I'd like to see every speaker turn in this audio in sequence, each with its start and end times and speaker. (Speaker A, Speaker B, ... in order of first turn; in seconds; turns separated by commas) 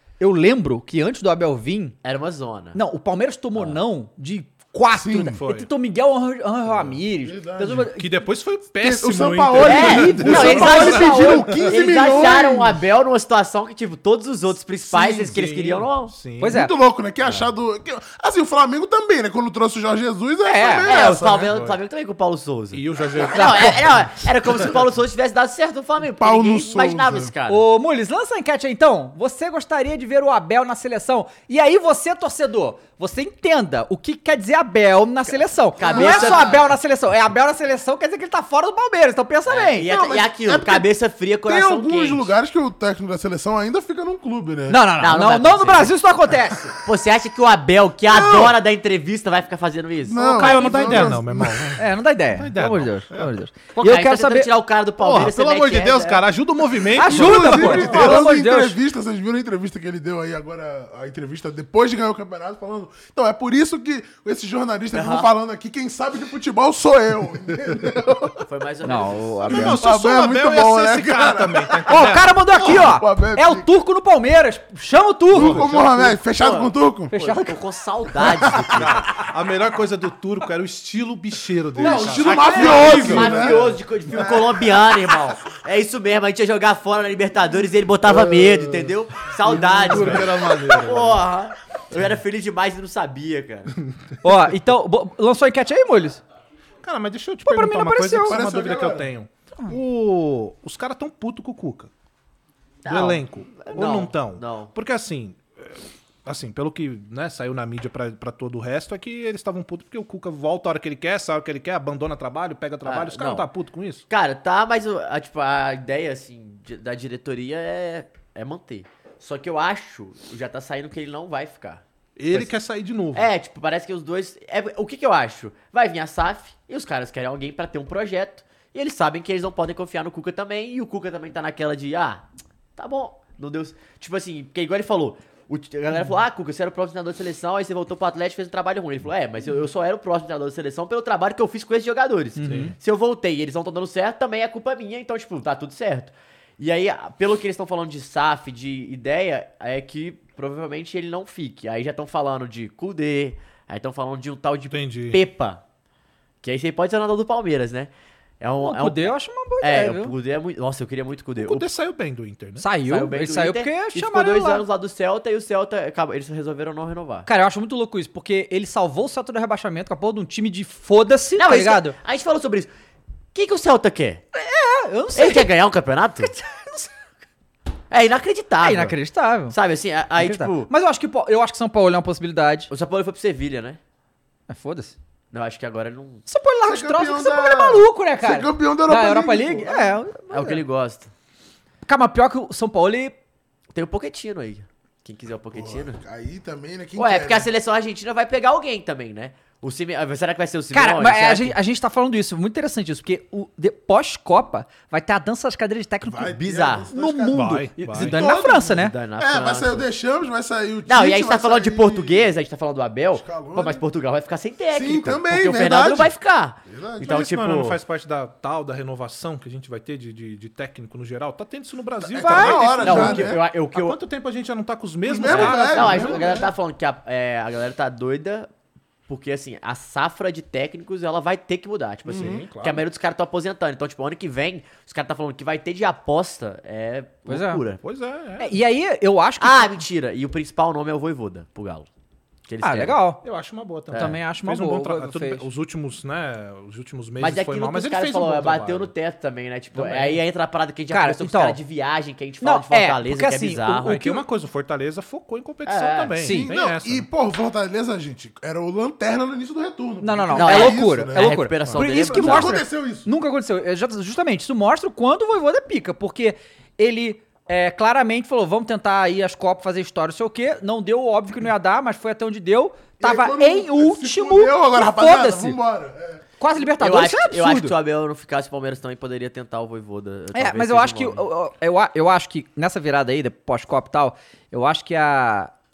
Speaker A: 0.2-1.9, Speaker B: 2.0-2.8, Speaker A: 2.7-8.1, Speaker B: 3.5-3.8, Speaker C: 4.9-5.4, Speaker D: 5.4-5.7, Speaker D: 6.7-7.0, Speaker C: 7.2-7.9, Speaker D: 7.8-11.8, Speaker C: 8.8-12.8, Speaker A: 9.6-11.6, Speaker B: 9.6-16.1, Speaker D: 14.9-16.5, Speaker A: 16.4-16.7, Speaker C: 16.4-21.5, Speaker A: 20.4-20.9, Speaker B: 20.8-27.6, Speaker D: 21.1-21.8, Speaker D: 22.7-24.1, Speaker A: 23.3-23.8, Speaker C: 26.0-27.3, Speaker A: 27.5-39.9, Speaker B: 35.3-36.7, Speaker C: 35.8-36.5, Speaker B: 39.5-42.3, Speaker C: 39.8-40.9, Speaker C: 41.4-44.8, Speaker A: 44.7-46.7, Speaker B: 45.0-45.9, Speaker B: 46.8-51.1, Speaker C: 48.1-48.6, Speaker C: 50.0-51.8, Speaker D: 50.3-53.3, Speaker A: 51.8-54.5, Speaker B: 53.7-56.3, Speaker D: 55.0-58.2, Speaker A: 56.9-58.8, Speaker C: 57.1-68.4, Speaker B: 64.9-65.3, Speaker B: 68.4-69.8, Speaker A: 68.8-69.8, Speaker D: 69.5-72.7, Speaker C: 69.5-73.7, Speaker A: 71.9-75.7, Speaker D: 75.3-76.0, Speaker C: 75.3-77.1, Speaker B: 75.9-79.1, Speaker A: 77.1-77.6, Speaker C: 78.2-78.6, Speaker D: 78.7-83.7, Speaker C: 81.7-84.8, Speaker A: 81.8-83.4, Speaker B: 82.3-93.7, Speaker C: 88.1-88.5, Speaker D: 89.4-91.2, Speaker C: 89.9-90.5, Speaker A: 94.2-96.2, Speaker D: 96.8-101.9, Speaker A: 97.4-98.4, Speaker C: 98.2-99.1, Speaker B: 102.8-104.7, Speaker D: 102.8-114.0, Speaker B: 112.8-113.5, Speaker B: 114.1-122.5, Speaker D: 122.2-123.3, Speaker B: 123.1-155.6, Speaker A: 142.4-142.7, Speaker D: 142.4-142.7, Speaker D: 154.7-155.2, Speaker B: 156.4-161.7, Speaker A: 158.6-160.1, Speaker D: 161.4-162.7, Speaker A: 162.6-164.6, Speaker B: 162.8-167.3, Speaker A: 167.2-171.9, Speaker B: 171.3-172.7, Speaker B: 173.3-174.2, Speaker A: 174.3-175.5, Speaker B: 175.1-176.3, Speaker A: 176.2-176.9, Speaker B: 177.9-179.0, Speaker A: 178.6-179.5, Speaker B: 179.5-180.7, Speaker A: 180.2-182.7, Speaker B: 182.7-183.8, Speaker A: 184.5-184.9, Speaker B: 185.3-186.2, Speaker A: 186.2-190.6, Speaker C: 186.6-189.9, Speaker B: 190.3-191.1, Speaker A: 191.8-193.2, Speaker B: 193.7-195.9, Speaker C: 195.5-197.5, Speaker B: 196.9-201.6, Speaker A: 200.7-206.4, Speaker C: 206.0-212.3, Speaker B: 206.3-206.9, Speaker A: 206.9-208.9, Speaker D: 207.3-208.2, Speaker B: 208.7-209.9, Speaker B: 210.9-217.8, Speaker C: 213.1-213.8, Speaker C: 214.7-216.1, Speaker C: 216.6-217.2, Speaker D: 217.0-226.4, Speaker C: 222.1-223.4, Speaker A: 222.2-223.2, Speaker B: 222.8-224.0, Speaker C: 225.0-226.5, Speaker B: 225.2-228.5, Speaker B: 229.1-237.8, Speaker C: 232.1-232.4, Speaker D: 232.1-232.8, Speaker A: 237.3-237.6, Speaker D: 237.8-238.5, Speaker A: 238.4-239.8, Speaker B: 239.4-241.9, Speaker B: 242.5-243.1, Speaker A: 242.6-243.2, Speaker D: 243.2-248.9, Speaker B: 243.9-244.2, Speaker A: 243.9-245.4, Speaker B: 247.2-254.2, Speaker D: 249.7-250.2, Speaker A: 250.9-251.6, Speaker A: 252.4-254.2, Speaker D: 253.9-257.1, Speaker B: 255.7-256.2, Speaker A: 256.2-256.5, Speaker C: 256.3-263.1, Speaker A: 260.0-275.6, Speaker B: 260.3-262.6, Speaker C: 273.0-276.2, Speaker A: 276.4-277.7, Speaker B: 276.8-281.2, Speaker A: 280.3-285.5